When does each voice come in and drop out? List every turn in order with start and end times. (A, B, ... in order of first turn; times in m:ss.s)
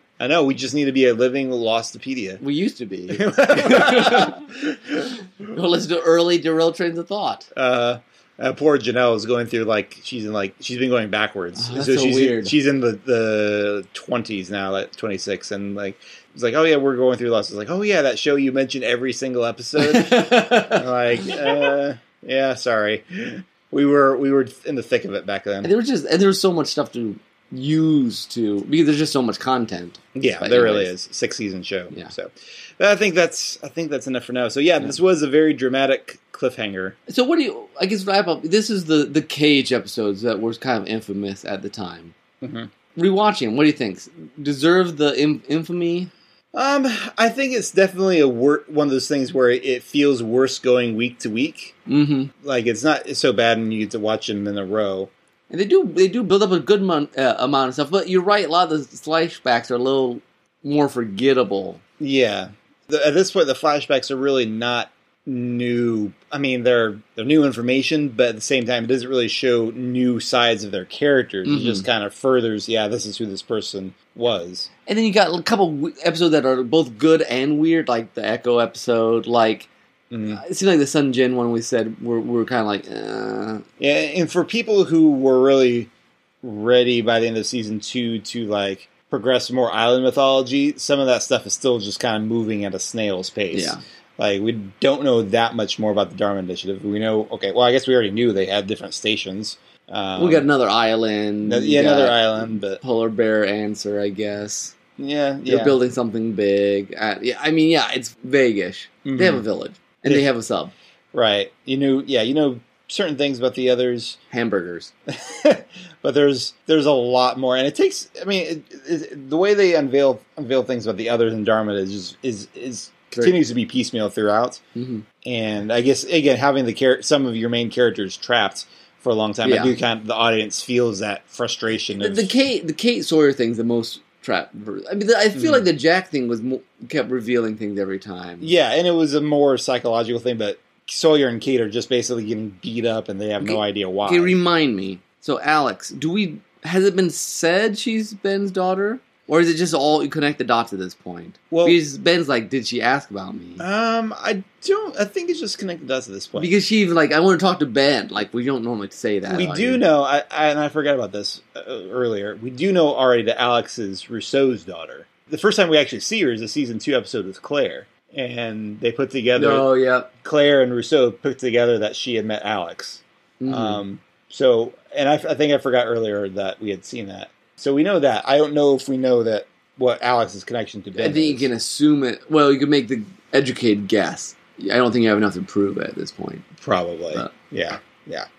0:00.2-0:02.4 A
0:02.4-0:04.4 B
0:03.1-0:05.1 A
0:05.5-0:07.5 B
0:07.5-0:25.7 A
0:11.6-0:12.5 B
0:19.8-0:20.8 B
0:25.6-0:30.9 B
0:30.2-0:37.0 A
0:37.1-0:42.1 B
0:42.4-0:42.7 A
0:42.9-0:46.1 B
0:46.5-0:51.7 A
0:51.9-0:52.3 B
0:52.4-0:55.1 A
0:55.5-1:01.8 B
1:02.0-1:14.7 A
1:11.4-1:11.9 B
1:14.9-1:19.7 B
1:20.1-1:20.4 A
1:20.3-1:23.6 B
1:23.8-1:25.9 A
1:26.4-1:40.5 A
1:33.5-1:33.8 B
1:40.2-1:44.7 B
1:41.4-1:42.8 A
1:45.0-1:45.8 A
1:45.4-1:50.7 B
1:49.0-1:49.4 A
1:51.1-1:54.2 A
1:54.3-1:54.9 B
1:55.1-2:04.6 A
2:04.8-2:05.0 B
2:05.2-2:12.3 A
2:09.4-2:09.7 B
2:12.0-2:18.5 B
2:15.3-2:15.6 A
2:18.4-2:24.4 A
2:23.4-2:33.6 B
2:31.5-2:31.8 A
2:33.6-2:36.5 A
2:36.4-2:39.8 B
2:39.2-2:49.7 A
2:49.4-2:50.1 B
2:50.2-3:01.5 A
2:53.4-2:53.8 B
3:00.9-3:06.4 B
3:06.6-3:08.2 A